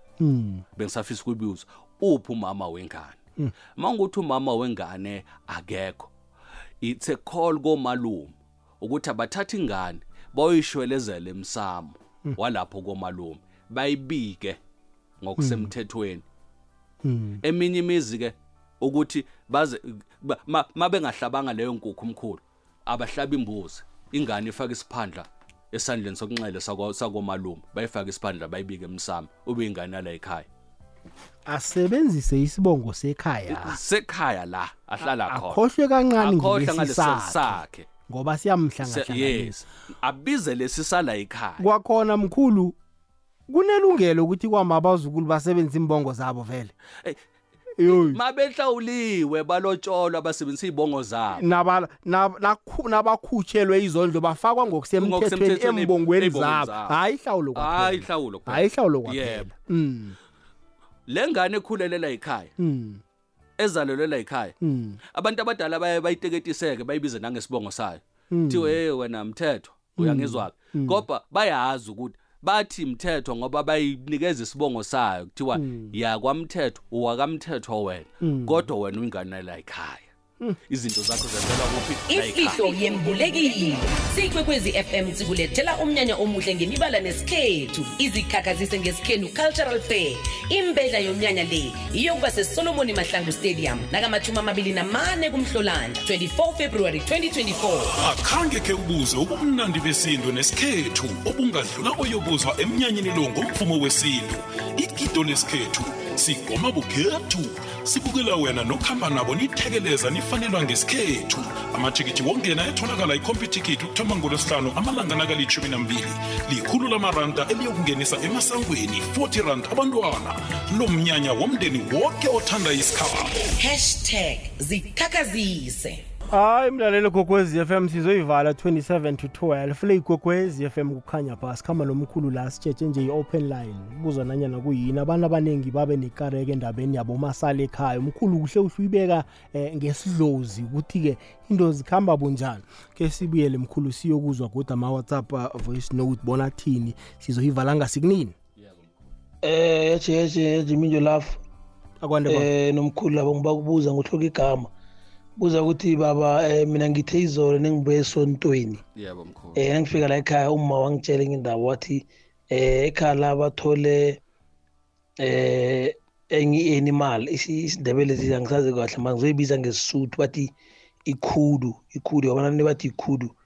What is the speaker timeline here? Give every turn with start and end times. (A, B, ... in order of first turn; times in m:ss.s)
0:00.2-0:00.6 A
0:00.8-0:03.2 B
0:03.8-0:06.1 B
0:06.8-0:14.6 B
0:15.2-0:16.2 B
0:15.4-0:15.7 A
0:17.0-0:17.4 A
0:17.4-0:30.5 B
0:31.5-0:33.8 A
0:33.5-0:35.6 B
0:35.3-0:39.6 A
0:36.2-0:37.9 B
0:38.8-0:41.7 B
0:41.6-0:42.8 A
0:43.5-0:46.7 A
0:47.8-0:48.2 A
0:47.9-0:51.4 B
0:51.4-1:00.2 A
0:55.0-0:57.0 B
0:57.6-0:59.5 B
1:01.1-1:02.5 B
1:02.6-1:03.0 A
1:03.6-1:20.1 B
1:04.6-1:05.0 A
1:08.3-1:08.8 A
1:10.0-1:11.0 A
1:15.6-1:16.0 A
1:18.2-1:18.6 A
1:20.7-1:23.2 B
1:22.1-1:38.0 C
1:37.9-2:03.4 D
2:03.6-2:06.0 C
2:06.3-2:28.3 A
2:28.6-2:29.0 B
2:29.4-2:31.4 E
2:32.0-2:32.5 A
2:32.3-2:34.7 E
2:35.4-2:38.8 E
2:38.9-2:39.6 B
2:39.6-2:44.2 E
2:45.2-2:50.5 E
2:51.1-2:53.3 E